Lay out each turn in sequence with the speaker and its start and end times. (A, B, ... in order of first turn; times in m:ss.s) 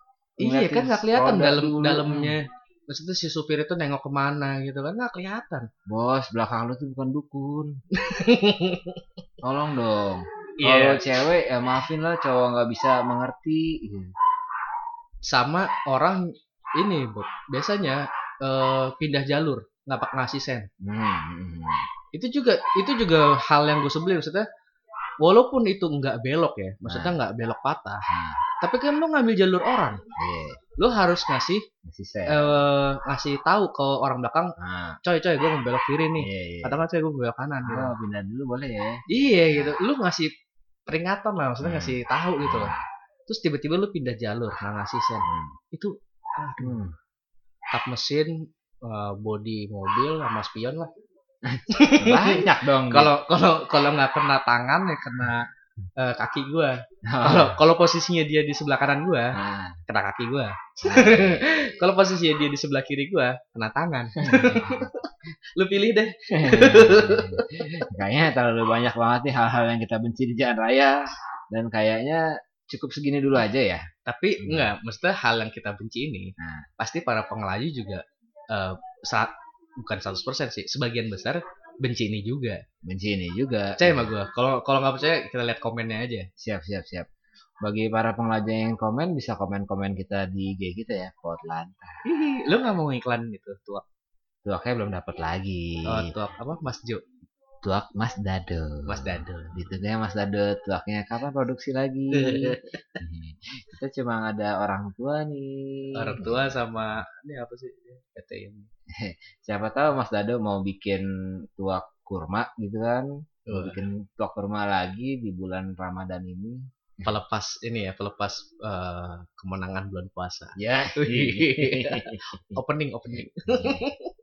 0:00.4-0:02.4 A
0:00.4-0:05.7 B
0:05.9-0:07.8 A
0:07.9-0:09.0 B
0:09.4-0:14.1 A
0:10.6-0:11.0 B
0:15.3-0:20.7 B
0:20.8-0:21.8 A
0:22.1-0:24.4 B
0:25.2-0:28.0 B
0:26.8-0:27.2 A
0:28.1-0:28.4 A
0:28.6-0:30.0 B
0:30.2-0:30.6 A
0:30.8-0:31.6 B
0:31.8-0:32.5 A
0:32.3-0:37.9 B
0:34.6-0:35.0 A
0:36.2-0:36.8 A
0:37.6-0:39.8 A
0:39.1-0:40.3 B
0:40.9-0:42.7 B
0:41.6-0:42.8 A
0:43.3-0:46.8 B
0:45.2-0:45.5 A
0:46.6-0:46.9 A
0:47.7-0:50.9 B
0:51.4-0:53.1 A
0:51.7-1:07.8 B
0:57.0-0:57.6 A
0:59.3-0:59.8 A
1:00.8-1:01.9 A
1:04.2-1:04.9 A
1:06.3-1:11.0 A
1:11.5-1:13.8 A
1:14.0-1:22.6 B
1:14.4-1:14.7 A
1:16.4-1:16.7 A
1:22.8-1:24.1 A
1:23.8-1:26.3 B
1:26.4-1:27.1 A
1:27.6-1:32.0 A
1:32.0-1:33.8 B
1:34.4-1:36.1 A
1:35.9-1:37.0 B
1:37.6-1:46.6 A
1:38.9-1:39.6 B
1:42.1-1:42.8 B
1:46.0-1:48.7 B
1:48.9-1:57.2 A
1:53.5-1:53.8 B
1:57.0-2:04.1 B
2:00.6-2:02.6 A
2:03.5-2:03.8 A